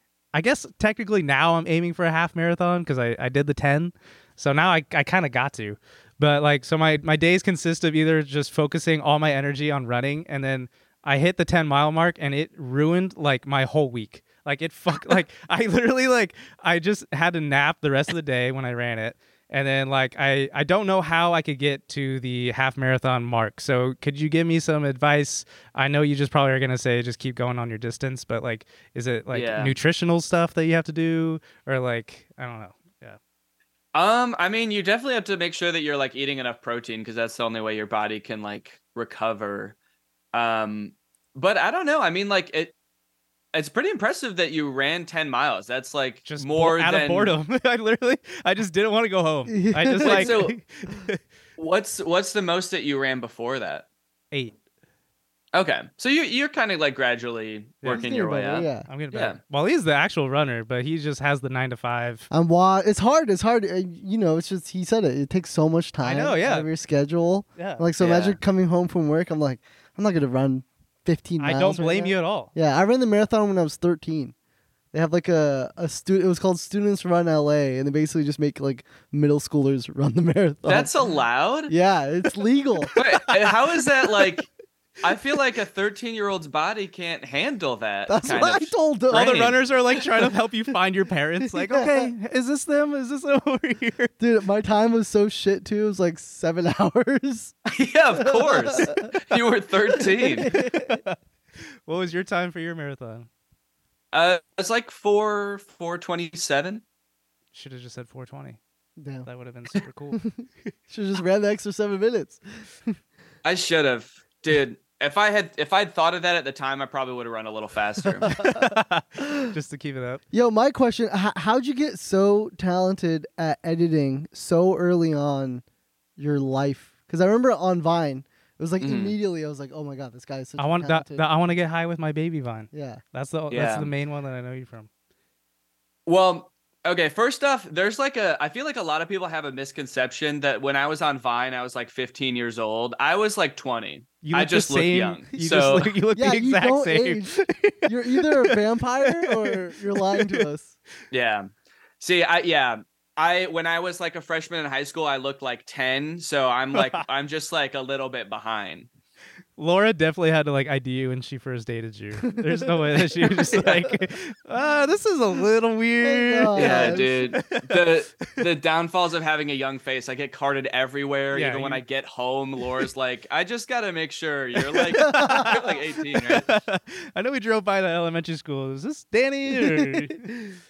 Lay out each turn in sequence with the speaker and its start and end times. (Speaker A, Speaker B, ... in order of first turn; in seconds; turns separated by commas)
Speaker A: 0.3-33.2, Speaker B: 29.3-29.7, Speaker B: 33.9-39.8, Speaker B: 40.3-42.7, Speaker B: 43.5-47.4, Speaker A: 46.2-51.2, Speaker C: 49.5-50.4, Speaker B: 50.0-50.6, Speaker B: 51.6-53.8, Speaker B: 55.5-59.4, Speaker C: 57.9-58.9, Speaker A: 58.9-62.3, Speaker C: 62.3-74.3, Speaker A: 66.0-66.7, Speaker A: 67.6-67.8, Speaker B: 68.0-68.4, Speaker A: 71.4-72.5, Speaker C: 74.9-80.9, Speaker B: 80.6-81.7, Speaker C: 81.7-82.9, Speaker B: 83.0-84.5, Speaker B: 85.0-89.5, Speaker C: 88.1-89.6, Speaker A: 89.1-94.1, Speaker C: 91.4-92.1, Speaker C: 94.2-97.5, Speaker B: 97.7-100.5, Speaker C: 98.2-99.1, Speaker C: 100.0-101.0, Speaker A: 100.5-101.2, Speaker A: 101.8-103.3, Speaker B: 104.1-106.8, Speaker A: 107.5-108.6, Speaker C: 109.0-109.3, Speaker A: 109.2-110.2, Speaker C: 110.1-112.9, Speaker B: 113.4-118.3, Speaker C: 118.2-119.4, Speaker A: 118.3-120.2, Speaker C: 120.3-125.6, Speaker C: 126.2-131.2, Speaker B: 128.8-129.2, Speaker A: 130.6-134.9, Speaker C: 132.7-133.0, Speaker B: 133.5-133.9, Speaker B: 136.1-145.9, Speaker A: 144.2-149.6, Speaker C: 146.1-150.8, Speaker A: 150.1-150.4, Speaker B: 151.1-158.9, Speaker A: 156.7-157.0, Speaker A: 159.6-168.4, Speaker C: 162.4-163.9, Speaker C: 166.0-167.3, Speaker B: 166.6-176.5, Speaker A: 171.3-171.8, Speaker A: 174.9-180.3, Speaker C: 174.9-175.7, Speaker C: 179.5-180.6